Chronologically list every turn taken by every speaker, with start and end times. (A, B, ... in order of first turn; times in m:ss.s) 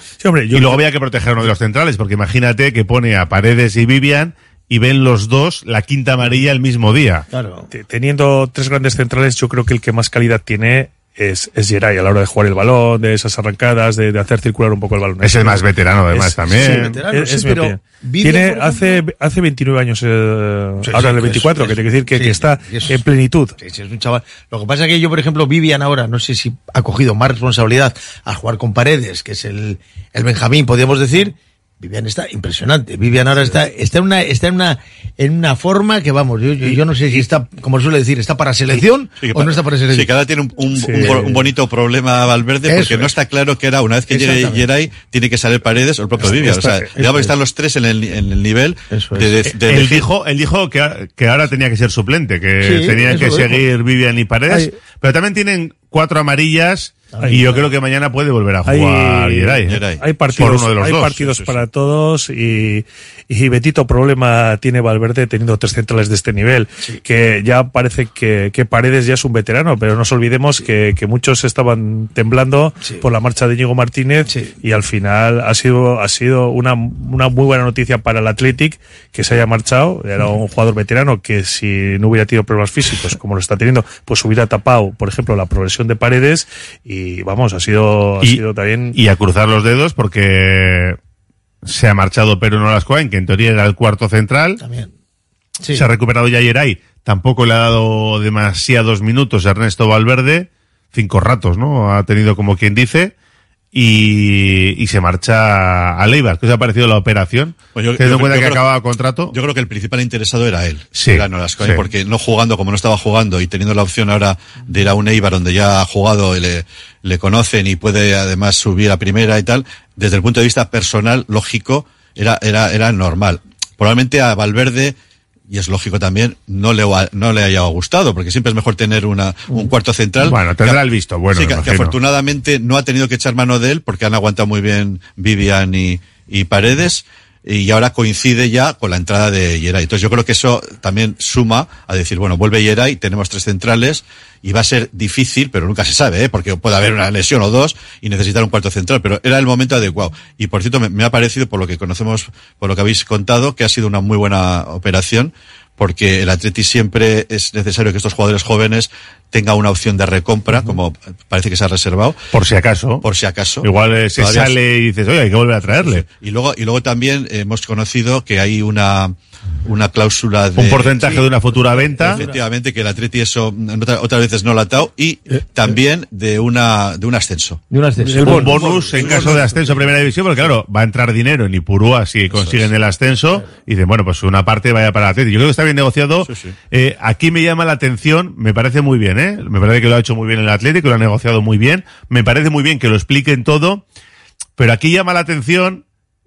0:00.2-0:00.8 A
0:00.5-0:07.2 B
0:07.3-0:07.7 C
0:07.7-0:23.6 A
0:15.2-0:17.0 B
0:16.5-0:19.0 C
0:20.8-0:23.1 C
0:23.6-0:40.1 C
0:39.2-0:50.1 D
0:40.8-0:41.3 A
0:40.8-0:41.5 C
0:42.7-0:43.2 C
0:44.1-0:44.7 C
0:46.2-0:46.9 A
0:46.3-0:47.3 C
0:48.9-0:49.4 C
0:49.6-0:59.8 B
0:52.6-0:53.6 C
0:57.1-0:57.6 C
0:57.2-0:57.6 A
0:58.7-1:29.0 A
0:59.7-1:00.0 D
1:00.3-1:01.3 B
1:01.3-1:01.6 D
1:12.8-1:13.1 C
1:14.3-1:14.6 C
1:28.2-1:31.0 B
1:31.6-1:34.6 B
1:34.6-1:34.9 C
1:35.6-1:35.9 C
1:35.8-1:43.1 B
1:43.7-1:49.4 B
1:47.8-1:48.6 D
1:49.3-2:05.0 D
1:51.0-1:51.8 B
2:05.5-2:10.8 D
2:10.2-2:12.0 B
2:11.3-2:42.2 D
2:42.3-2:43.0 B
2:43.0-2:44.5 D
2:43.6-2:46.0 B
2:45.9-2:49.1 D
2:49.6-2:51.0 D
2:50.6-2:52.2 B
2:51.0-2:51.2 C
2:52.1-2:57.6 D
2:57.7-2:59.8 C
2:58.1-2:59.5 A
2:58.2-3:13.8 B
2:58.7-2:59.4 D
3:02.3-3:02.7 D
3:06.2-3:06.6 D
3:14.6-3:15.8 B